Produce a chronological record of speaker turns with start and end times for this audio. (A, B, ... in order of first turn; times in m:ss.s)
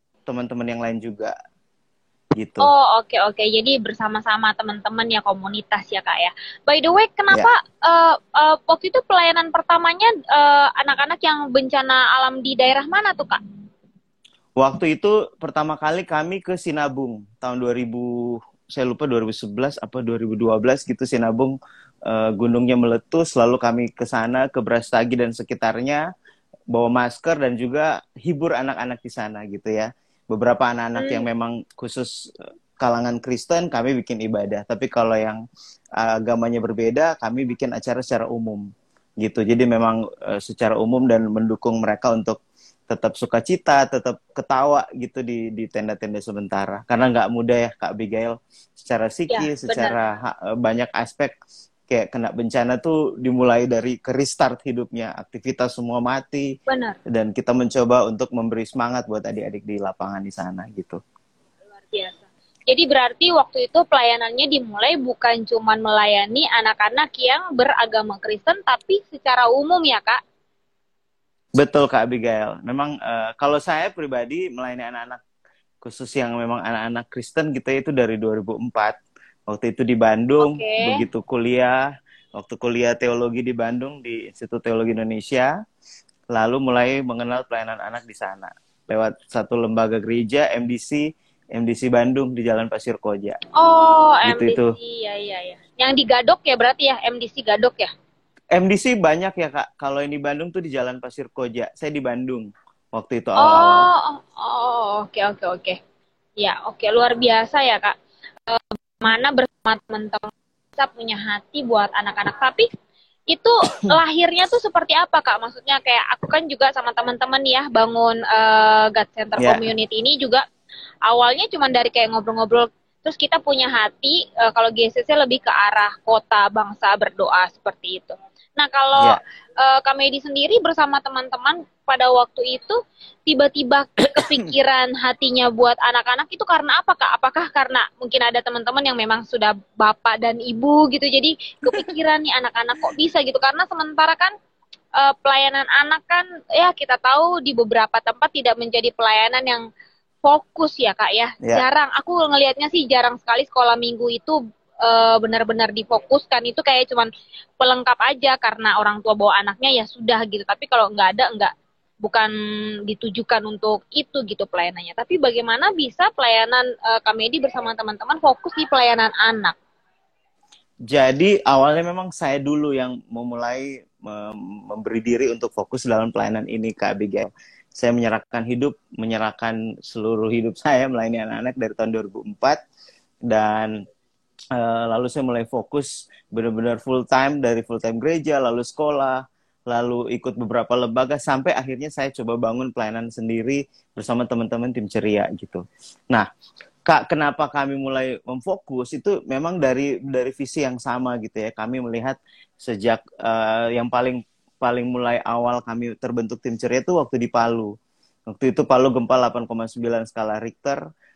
0:00.3-0:01.3 A
0:02.4-0:02.7 A
0:02.6-0:13.4 B
0:14.6-0:21.6 A
0:22.1-0:26.0 A
0:26.7-0:32.1 A
0:31.0-0:31.2 B
0:32.8-0:35.4 A
0:36.0-0:38.7 A
0:39.2-0:51.4 A
0:49.3-0:50.0 B
0:51.9-0:56.5 A
0:56.7-0:57.0 B
0:57.1-1:01.0 A
1:01.9-1:10.2 B
1:11.6-1:15.2 A
1:15.8-1:19.0 A
1:19.5-1:25.5 A
1:20.4-1:21.0 B
1:26.3-1:33.4 A
1:33.6-1:37.9 B
1:34.3-1:34.7 A
1:38.6-1:43.9 A
1:43.4-1:45.8 B
1:46.4-1:48.0 B
1:48.5-1:52.7 B
1:53.3-2:00.4 B
2:01.1-2:24.3 B
2:25.0-2:29.6 B
2:30.2-2:41.5 B
2:42.0-2:42.3 B
2:42.9-2:49.6 B
2:50.9-3:02.6 A
3:03.3-3:03.8 A
3:04.6-3:16.3 A
3:16.9-3:27.7 A
3:28.3-3:30.8 A